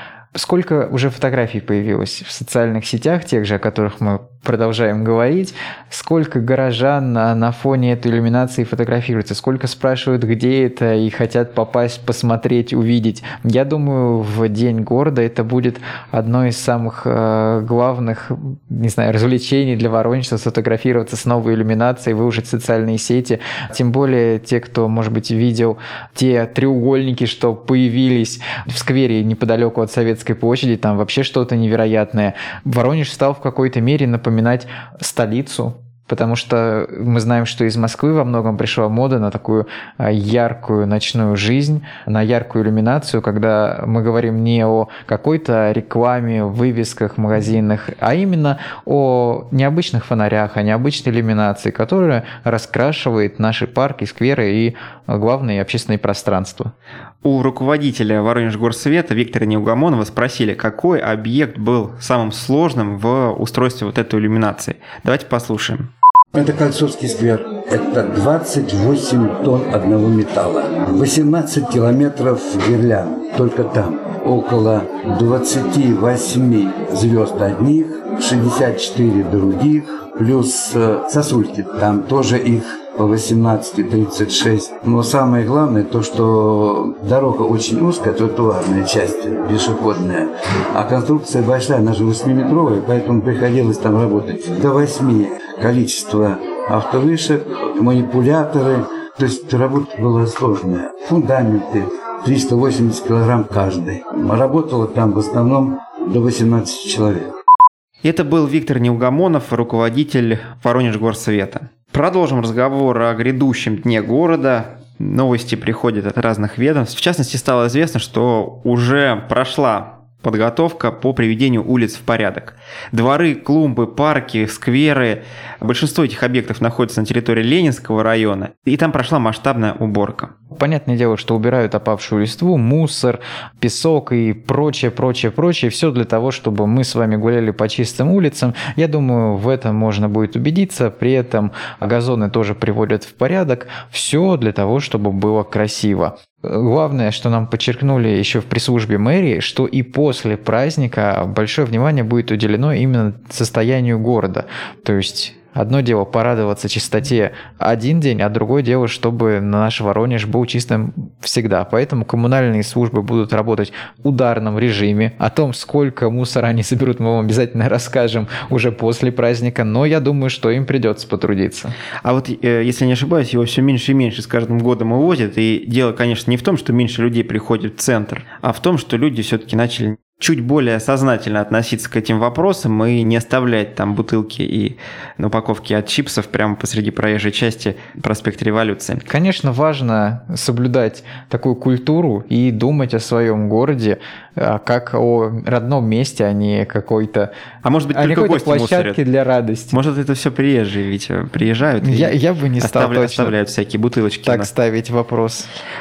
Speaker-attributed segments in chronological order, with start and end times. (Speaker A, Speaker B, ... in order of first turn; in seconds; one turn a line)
Speaker A: 0.3-56.7
Speaker B: 57.2-65.9
Speaker C: 66.3-107.3
Speaker B: 108.0-130.3
Speaker A: 130.5-171.7
Speaker B: 172.0-189.1
Speaker A: 189.1-197.3
Speaker B: 197.6-199.0
Speaker A: 197.9-199.8
Speaker B: 199.7-204.5
Speaker A: 201.8-203.3
Speaker A: 204.2-205.5